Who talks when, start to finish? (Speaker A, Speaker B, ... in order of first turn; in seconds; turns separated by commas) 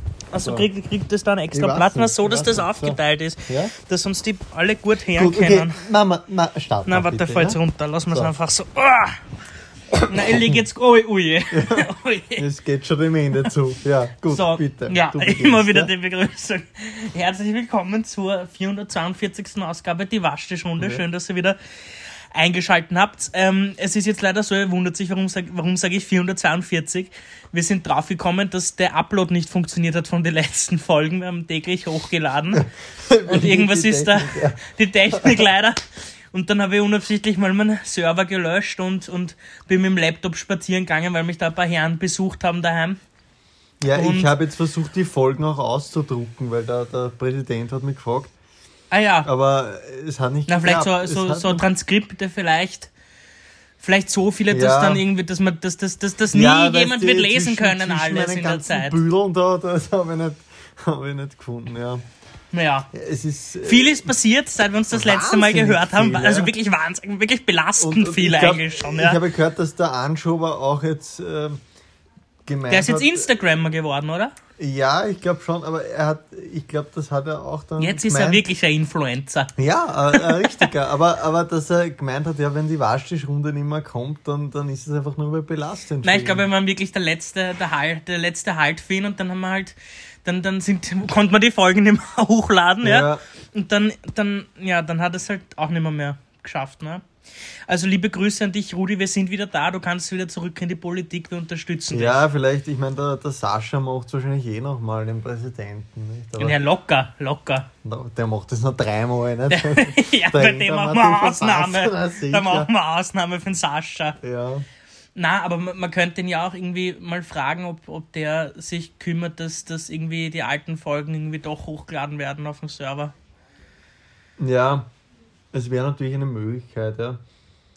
Speaker A: 0.3-5.8, Speaker B: 0.4-0.7, Speaker B: 1.5-3.7, Speaker B: 5.1-8.3, Speaker A: 6.9-9.2, Speaker B: 9.9-10.6, Speaker A: 10.1-12.4, Speaker B: 11.5-15.9, Speaker A: 14.3-21.6, Speaker B: 20.8-21.1, Speaker A: 22.3-32.6, Speaker B: 32.5-35.5, Speaker A: 33.3-35.8, Speaker A: 36.3-43.0, Speaker B: 43.8-48.3, Speaker A: 43.9-44.3, Speaker A: 48.9-49.3, Speaker B: 49.2-51.7, Speaker A: 50.5-52.9, Speaker A: 53.8-59.0, Speaker B: 54.5-55.0, Speaker B: 56.3-62.0, Speaker A: 62.5-62.9, Speaker B: 62.9-64.1, Speaker A: 63.6-69.2, Speaker B: 64.9-66.5, Speaker B: 67.8-71.6, Speaker B: 72.5-73.3, Speaker A: 72.7-74.3, Speaker B: 74.6-78.5, Speaker A: 77.8-79.5, Speaker B: 79.6-86.5, Speaker A: 80.1-80.7, Speaker A: 86.0-97.0, Speaker B: 92.8-93.2, Speaker A: 97.7-102.2, Speaker B: 101.9-106.6, Speaker A: 106.4-107.7, Speaker B: 107.8-112.7, Speaker A: 109.5-114.2, Speaker B: 114.2-114.7, Speaker A: 115.2-123.1, Speaker B: 124.4-124.9, Speaker B: 125.5-127.2